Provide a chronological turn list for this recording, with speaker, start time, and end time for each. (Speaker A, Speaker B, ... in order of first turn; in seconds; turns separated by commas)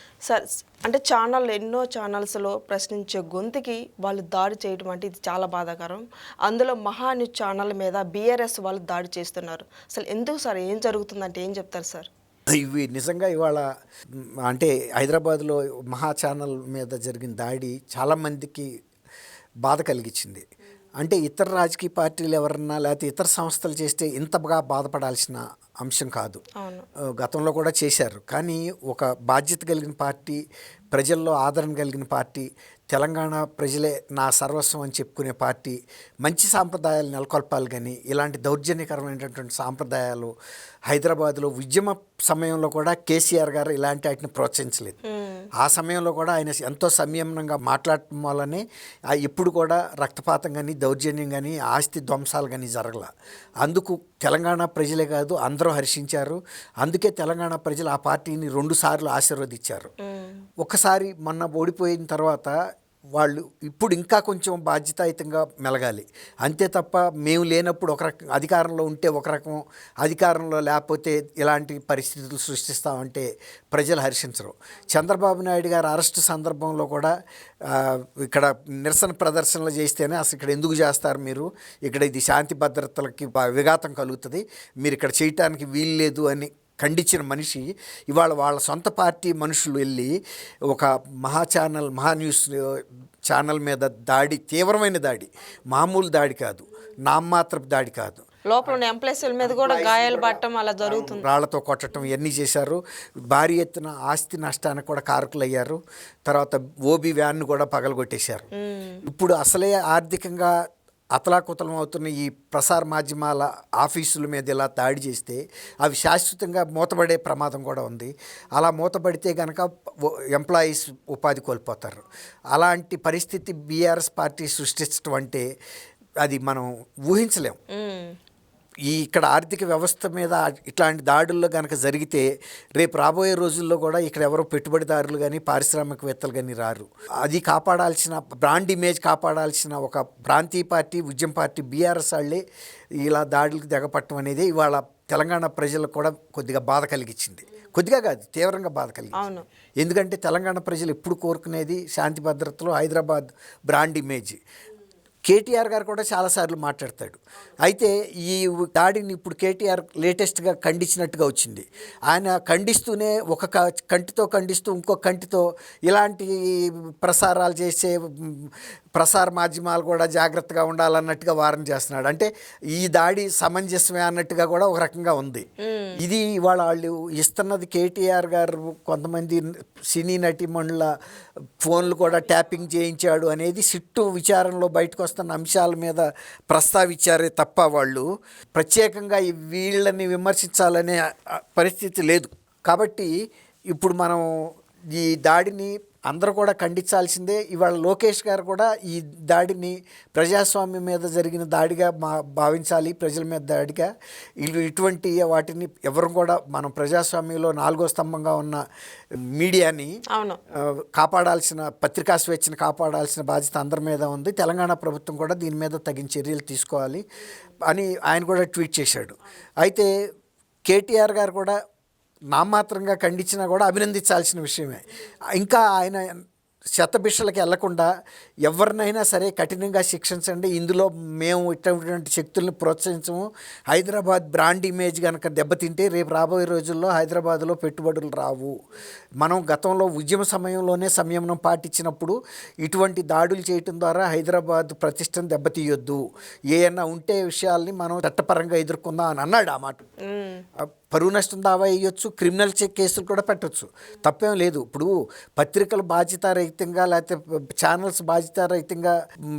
Speaker A: 0.2-12.1, Speaker B: 12.5-18.7, Speaker B: 19.6-20.4, Speaker B: 21.0-26.4, Speaker A: 26.6-26.9, Speaker B: 27.0-30.4, Speaker B: 30.9-40.3, Speaker B: 40.9-45.0, Speaker A: 45.0-45.5, Speaker B: 45.6-53.1, Speaker B: 53.6-59.9, Speaker A: 60.0-60.4, Speaker B: 60.6-62.5, Speaker B: 63.1-77.1, Speaker B: 77.7-90.1, Speaker B: 90.7-98.8, Speaker A: 98.5-101.2, Speaker B: 99.4-108.5, Speaker A: 108.5-109.0, Speaker B: 109.0-110.5, Speaker B: 111.1-125.5, Speaker B: 126.2-127.6, Speaker A: 127.7-128.2, Speaker B: 128.9-142.4, Speaker B: 143.0-149.2, Speaker A: 149.1-149.4, Speaker B: 149.8-154.4, Speaker B: 155.3-175.4, Speaker A: 175.6-176.0, Speaker B: 176.0-180.9, Speaker B: 181.6-193.1, Speaker B: 193.7-194.2, Speaker B: 194.9-203.9, Speaker B: 204.4-208.6, Speaker B: 209.3-209.9, Speaker A: 210.1-210.4, Speaker B: 210.5-217.0, Speaker B: 217.7-219.9, Speaker B: 220.7-221.6, Speaker B: 222.3-224.8, Speaker B: 225.3-226.2, Speaker B: 226.8-227.9, Speaker B: 228.4-238.5, Speaker B: 239.2-249.8, Speaker A: 250.0-250.4, Speaker B: 250.6-258.9